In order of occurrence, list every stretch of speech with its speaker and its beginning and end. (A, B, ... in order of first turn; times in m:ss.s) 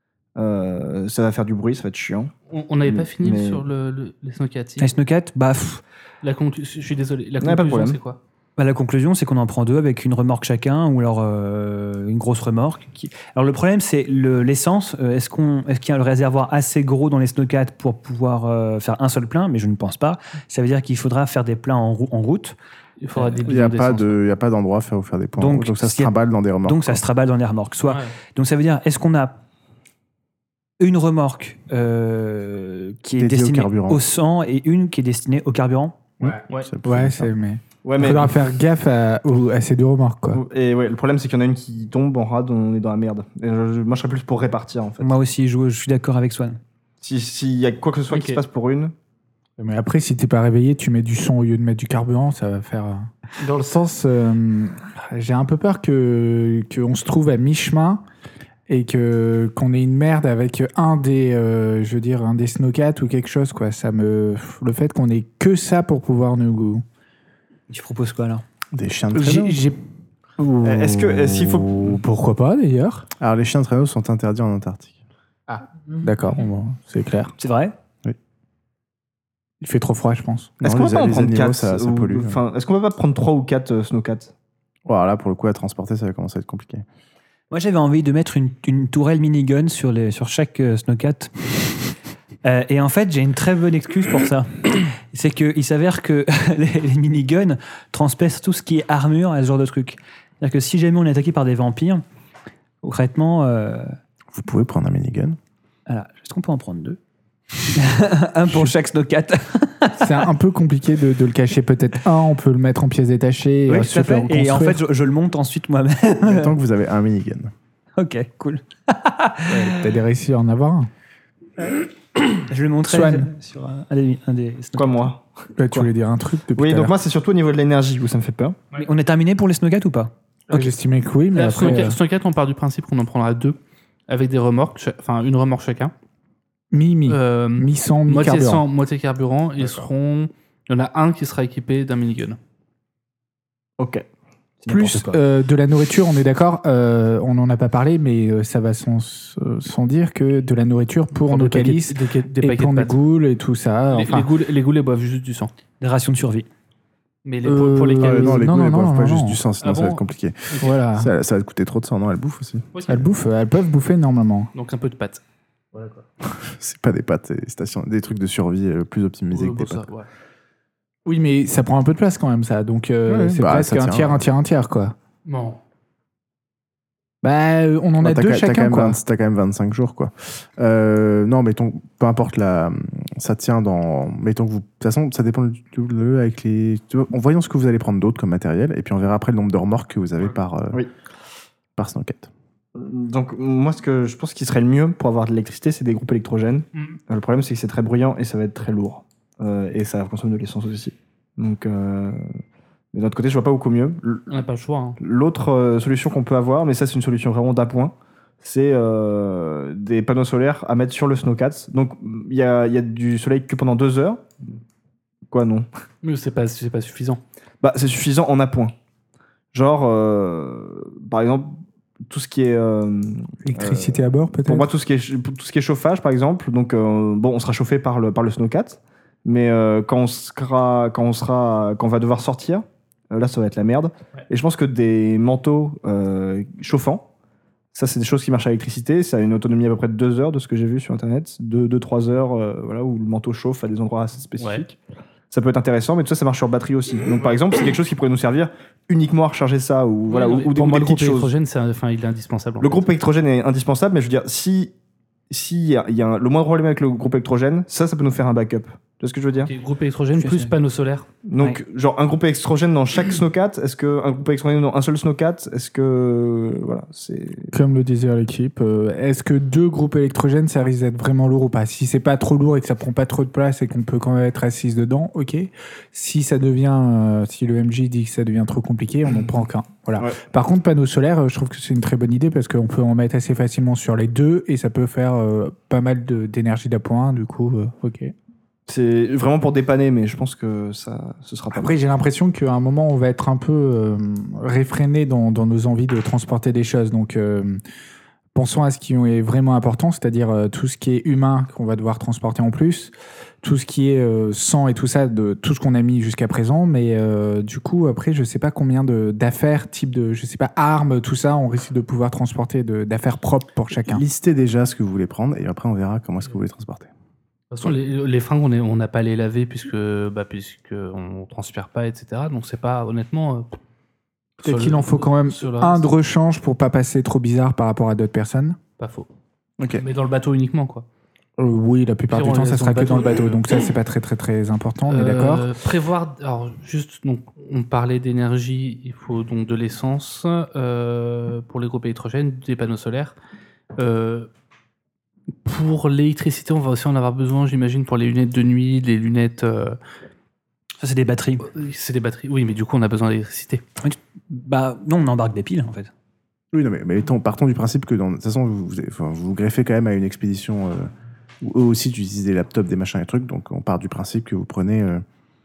0:00.4-0:02.3 A
0:02.5-0:04.9 B
0:02.9-0:03.6 A
0:04.8-0:05.8 C
0:06.2-0:08.2 B
0:07.4-0:08.0 A
0:08.6-0:22.6 C
0:23.0-0:24.2 B
0:23.4-0:27.0 D
0:25.4-0:29.4 C
0:30.8-0:36.0 C
0:33.2-0:34.0 D
0:36.2-0:37.3 D
0:36.2-0:40.4 E
0:37.8-0:38.4 A
0:40.3-0:45.2 A
0:45.0-0:46.6 C
0:47.0-0:48.9 A
0:48.1-0:48.4 B
0:49.6-0:58.0 E
0:53.4-0:53.7 B
0:58.7-1:06.8 E
1:07.7-1:08.4 C
1:08.7-1:09.6 D
1:09.1-1:09.8 E
1:10.4-1:13.1 E
1:10.6-1:12.0 A
1:13.2-1:14.9 D
1:15.5-1:17.4 E
1:17.4-1:17.8 C
1:19.6-1:20.6 E
1:20.6-1:22.4 D
1:20.6-1:24.3 A
1:24.8-1:26.8 D
1:27.5-1:31.8 C
1:32.4-1:42.0 C
1:42.8-1:44.0 C
1:44.3-1:45.4 D
1:45.9-1:47.0 C
1:47.7-1:50.3 C
1:50.0-1:54.8 E
1:53.7-1:56.5 C
1:56.2-1:57.5 D
1:58.0-2:00.0 C
1:59.5-2:00.9 E
2:02.3-2:05.1 C
2:02.9-2:03.3 E
2:04.8-2:05.9 A
2:05.6-2:07.0 E
2:06.6-2:08.6 A
2:08.8-2:10.1 C
2:10.5-2:12.0 E
2:11.3-2:13.6 B
2:14.1-2:15.9 B
2:16.7-2:18.6 E
2:17.1-2:22.4 B
2:23.8-2:24.1 A
2:24.6-2:25.2 C
2:24.7-2:34.3 E
2:31.2-2:33.0 B
2:33.9-2:35.5 B
2:35.8-2:36.5 C
2:37.2-2:38.4 B
2:37.4-2:39.4 E
2:38.0-2:42.7 D
2:39.6-2:40.7 B
2:40.6-2:41.1 E
2:42.7-2:43.1 B
2:42.9-2:44.5 E
2:44.5-2:45.2 B
2:45.7-2:46.0 B
2:46.2-2:49.9 D
2:49.3-2:50.1 B
2:51.0-2:55.0 E
2:53.1-2:54.2 D
2:55.3-2:55.6 B
2:57.2-2:59.0 E
2:58.0-3:10.8 D
3:11.8-3:12.3 D
3:12.8-3:22.3 A
3:22.9-3:24.3 A
3:24.3-3:25.0 B
3:25.0-3:34.3 A
3:35.3-3:35.7 A
3:36.0-3:37.2 B
3:37.6-3:38.7 A
3:39.5-3:57.1 A
3:43.4-3:44.7 E
3:57.7-4:04.8 A
4:04.4-4:04.6 B
4:05.3-4:11.3 A
4:10.1-4:12.9 B
4:12.6-4:14.7 A
4:15.3-4:19.5 A
4:19.4-4:21.1 B
4:20.2-4:20.5 C
4:21.3-4:27.5 A
4:27.5-4:48.1 E
4:48.7-4:51.7 A
4:51.5-4:57.6 E
4:58.3-5:14.0 E
5:13.8-5:16.9 D
5:17.5-5:23.5 B
5:24.4-5:25.9 B
5:24.4-5:28.6 E
5:28.8-5:29.1 B
5:29.6-5:29.8 D
5:29.8-5:30.8 B
5:31.4-5:35.5 E
5:32.1-5:33.4 B
5:34.9-5:43.2 B
5:43.8-5:44.3 B
5:45.4-5:49.8 B
5:50.8-5:51.5 C
5:51.4-5:53.6 B
5:53.8-5:55.9 C
5:56.5-6:00.9 D
6:01.4-6:05.0 D